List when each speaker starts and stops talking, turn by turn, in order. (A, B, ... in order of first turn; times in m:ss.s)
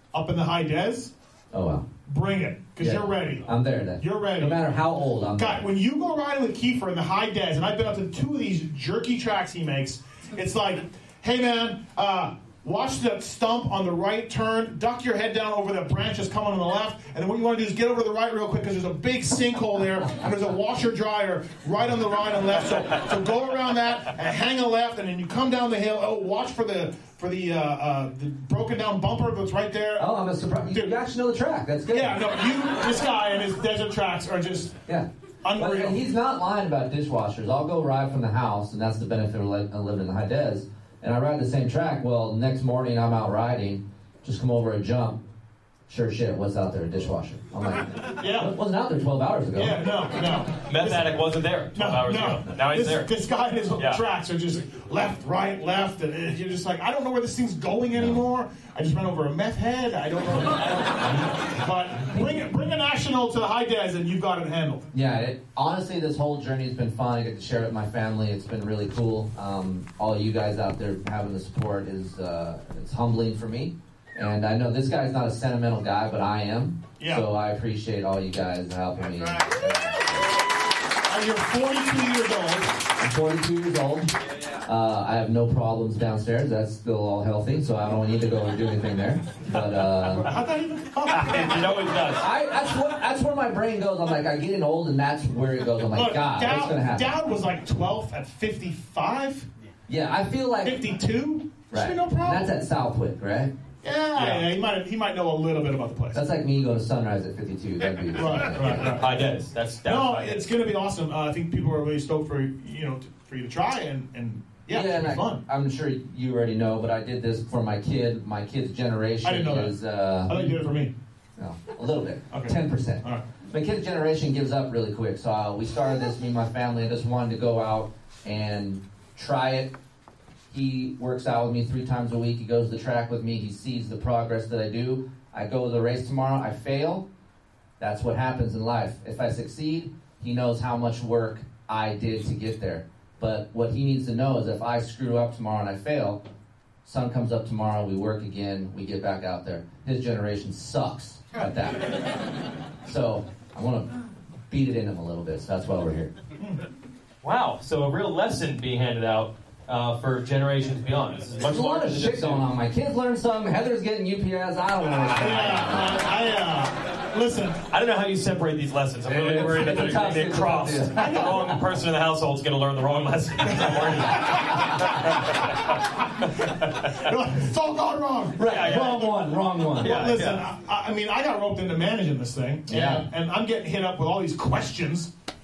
0:00.1-0:01.1 A
0:01.5-0:01.9 B
0:02.1-0:03.5 A
0:02.8-0:05.6 B
0:04.0-0:04.6 A
0:05.4-0:30.2 A
0:30.0-0:32.2 B
0:31.9-0:34.8 A
0:34.9-0:45.2 B
0:35.4-0:36.0 A
0:45.9-0:49.9 B
0:48.2-0:48.5 A
0:49.6-0:51.2 A
0:50.7-0:53.1 C
0:51.8-1:04.9 A
0:53.8-0:54.0 C
0:58.0-0:58.2 B
1:04.9-1:20.3 B
1:17.0-1:17.3 A
1:19.1-1:19.6 A
1:21.1-1:22.8 A
1:23.0-1:30.3 B
1:30.1-1:32.0 A
1:31.1-1:32.2 C
1:32.2-1:37.1 B
1:35.9-1:39.5 A
1:39.9-1:40.9 B
1:40.6-1:42.5 A
1:41.7-1:43.6 B
1:43.8-1:46.2 A
1:44.2-1:44.5 C
1:46.1-1:49.0 B
1:48.2-1:49.3 A
1:48.7-1:50.5 C
1:49.8-1:55.4 A
1:54.7-2:00.6 B
1:59.2-2:00.9 A
2:01.4-2:09.8 B
2:02.3-2:03.2 A
2:10.5-2:17.1 B
2:17.8-2:26.2 B
2:26.8-2:32.0 B
2:32.8-2:36.1 B
2:37.2-2:42.4 C
2:41.4-2:46.0 B
2:45.2-2:47.6 A
2:47.7-2:55.5 C
2:49.1-2:51.5 B
2:51.0-2:51.5 A
2:53.5-2:54.9 A
2:56.9-2:59.3 A
2:58.4-2:59.9 B
2:58.4-2:59.1 C
2:59.8-3:05.1 A
2:59.8-3:00.4 C
3:02.7-3:03.1 B